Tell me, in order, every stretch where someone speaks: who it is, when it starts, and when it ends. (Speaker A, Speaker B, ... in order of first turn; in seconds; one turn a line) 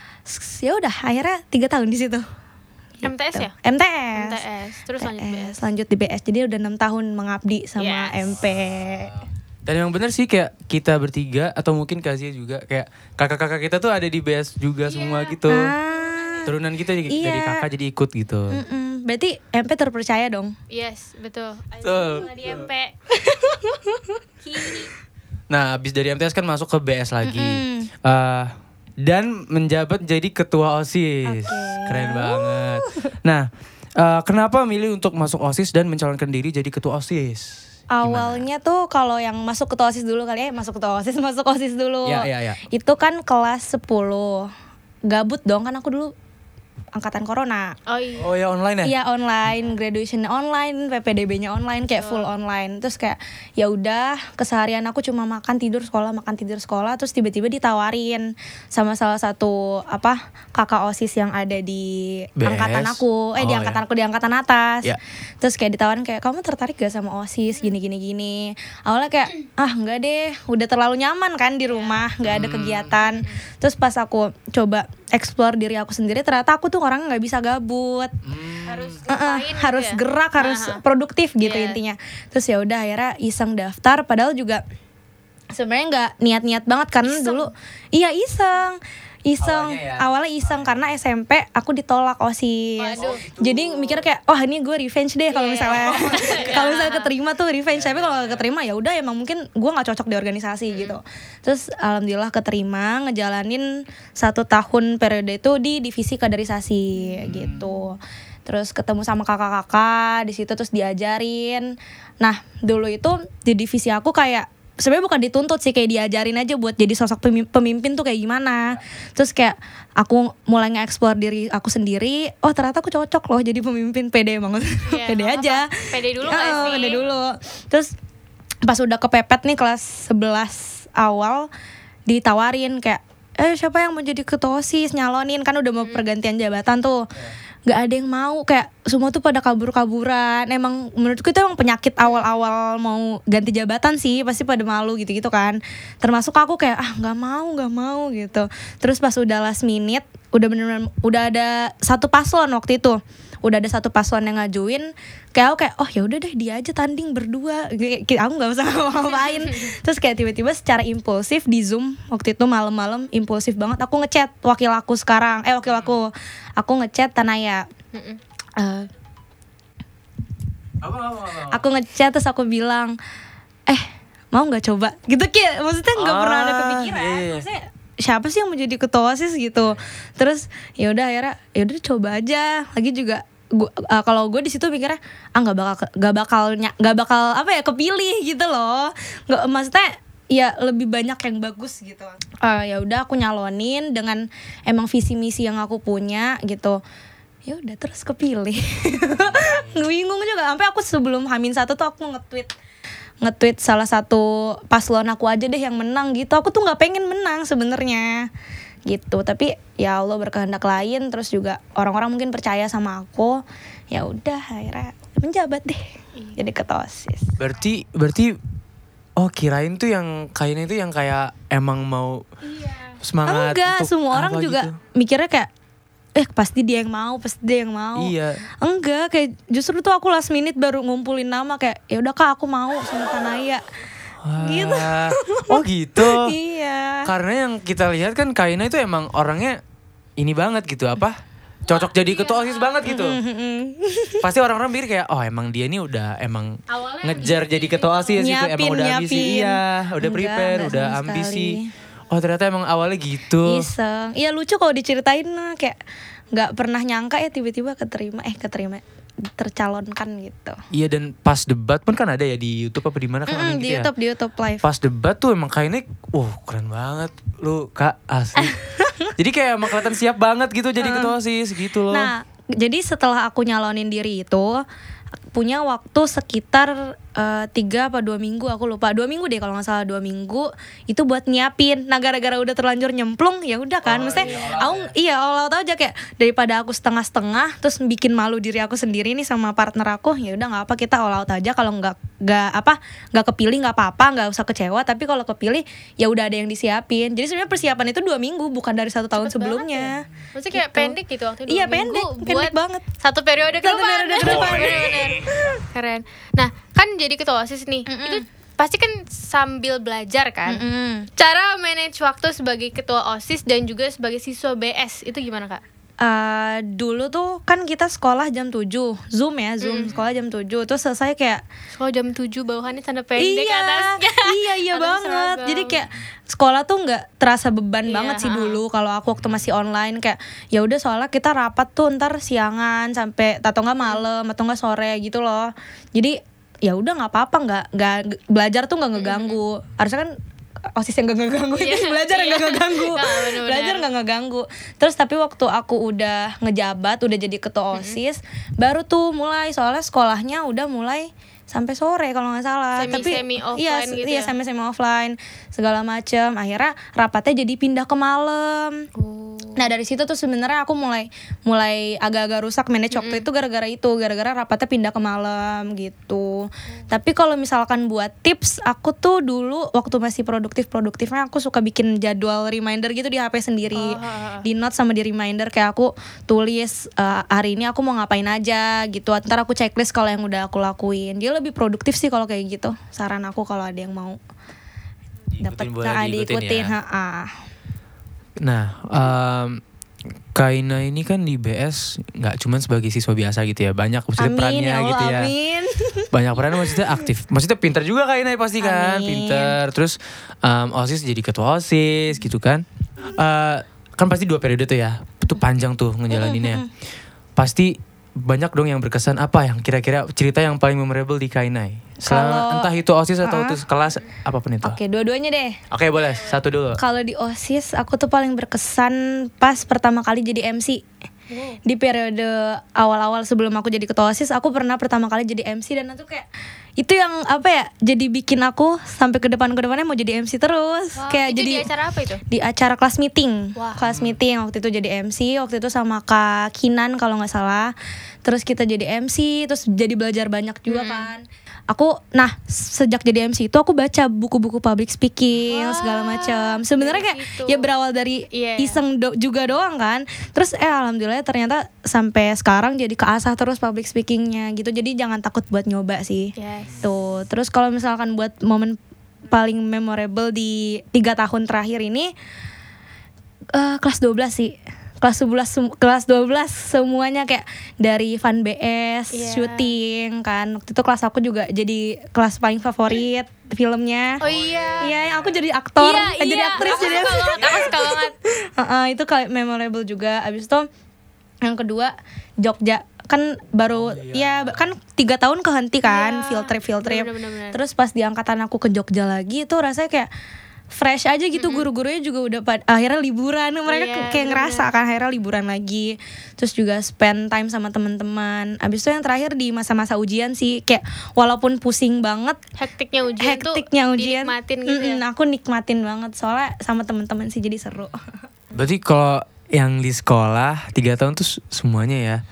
Speaker A: 0.3-2.2
Speaker A: 3.0-4.4
Speaker B: 3.0-3.5
Speaker B: 4.1-5.6
Speaker A: 5.0-9.1
Speaker B: 7.8-8.2
Speaker C: 8.2-15.7
Speaker B: 14.9-16.4
Speaker A: 15.5-16.5
Speaker C: 16.5-18.6
Speaker A: 17.1-17.7
Speaker A: 18.5-20.6
Speaker B: 20.7-22.9
Speaker C: 21.8-22.7
Speaker A: 23.1-24.2
Speaker B: 24.4-24.9
Speaker C: 25.5-38.5
Speaker A: 27.2-27.9
Speaker A: 31.2-33.1
Speaker A: 37.9-44.5
Speaker C: 42.0-42.6
Speaker A: 45.1-46.1
Speaker A: 47.0-47.8
Speaker B: 47.9-48.3
Speaker C: 48.2-48.9
Speaker A: 48.8-78.1
Speaker B: 52.0-52.3
Speaker C: 62.4-63.8
Speaker B: 71.7-72.0
Speaker C: 72.2-73.0
Speaker B: 73.0-73.4
Speaker C: 78.2-79.0
Speaker B: 78.7-80.8
Speaker A: 79.1-84.6
Speaker B: 81.4-81.8
Speaker A: 85.5-127.9
Speaker B: 87.0-87.5
Speaker C: 89.4-90.7
Speaker B: 92.8-93.2
Speaker C: 93.0-94.0
Speaker B: 95.3-97.1
Speaker C: 95.9-96.6
Speaker C: 97.7-98.5
Speaker B: 100.7-101.0
Speaker C: 107.2-107.8
Speaker B: 124.8-127.0
Speaker C: 126.4-127.2
Speaker A: 128.7-131.5
Speaker A: 132.1-137.1
Speaker A: 137.7-167.7
Speaker B: 142.0-142.3
Speaker B: 159.2-159.7
Speaker B: 167.9-168.2
Speaker A: 168.6-168.9
Speaker C: 170.8-171.7
Speaker A: 171.5-173.0
Speaker A: 173.7-196.8
Speaker C: 176.0-177.5
Speaker A: 197.4-202.5
Speaker C: 199.1-199.8
Speaker A: 203.2-208.3
Speaker A: 208.9-217.3
Speaker C: 217.4-218.4
Speaker C: 219.2-222.2
Speaker B: 222.4-223.0
Speaker C: 223.0-224.8
Speaker A: 223.3-225.5
Speaker A: 226.2-233.6
Speaker C: 228.0-228.4
Speaker C: 234.2-236.3
Speaker A: 234.4-237.1
Speaker C: 237.1-239.6
Speaker C: 240.2-243.2
Speaker B: 241.7-242.9
Speaker A: 242.8-244.2
Speaker C: 244.2-251.6
Speaker B: 246.7-248.3
Speaker A: 248.2-251.7
Speaker C: 252.1-253.7
Speaker A: 253.4-255.8
Speaker A: 256.3-260.6
Speaker C: 260.7-263.9
Speaker A: 263.3-264.6
Speaker C: 264.6-268.6
Speaker A: 268.4-269.1
Speaker C: 269.2-272.1
Speaker A: 270.8-271.1
Speaker A: 271.9-274.6
Speaker A: 275.3-302.9
Speaker C: 283.8-284.9
Speaker B: 299.1-310.6
Speaker A: 303.6-305.6
Speaker C: 304.3-305.1
Speaker A: 307.9-308.2
Speaker A: 310.5-311.1
Speaker B: 311.2-315.6
Speaker A: 316.0-321.4
Speaker B: 319.6-319.9
Speaker B: 321.8-325.8
Speaker A: 323.2-340.1
Speaker B: 327.9-328.6
Speaker C: 329.2-329.5
Speaker B: 339.0-339.4
Speaker A: 340.8-358.9
Speaker B: 341.6-343.9
Speaker B: 347.7-348.0
Speaker B: 352.8-354.3
Speaker B: 359.0-359.7
Speaker A: 359.6-384.2
Speaker B: 362.9-363.2
Speaker B: 373.7-374.5
Speaker C: 385.3-386.8
Speaker A: 385.4-387.3
Speaker C: 388.4-389.6
Speaker C: 390.3-395.3
Speaker A: 394.2-396.8
Speaker C: 396.1-406.6
Speaker A: 398.6-399.6
Speaker A: 406.1-406.7
Speaker C: 407.4-414.8
Speaker A: 412.0-412.7
Speaker A: 413.2-413.6
Speaker A: 414.6-415.6
Speaker C: 415.7-416.8
Speaker A: 416.8-420.9
Speaker B: 421.3-421.6
Speaker A: 421.6-426.3
Speaker A: 426.8-431.7
Speaker B: 431.0-432.2
Speaker A: 432.3-462.1
Speaker C: 433.8-434.2
Speaker B: 440.7-441.1
Speaker B: 445.5-447.7
Speaker B: 448.3-448.8
Speaker B: 456.4-456.9
Speaker A: 463.5-474.2
Speaker B: 469.1-469.8
Speaker B: 474.2-474.9
Speaker C: 474.2-475.4
Speaker A: 474.8-480.7
Speaker B: 475.8-478.1
Speaker C: 476.6-477.7
Speaker A: 481.4-490.1
Speaker C: 483.7-484.7
Speaker B: 485.9-487.6
Speaker A: 490.7-502.4
Speaker B: 491.4-491.7
Speaker B: 493.7-494.7
Speaker B: 502.6-505.0
Speaker A: 503.2-508.1
Speaker C: 508.5-512.2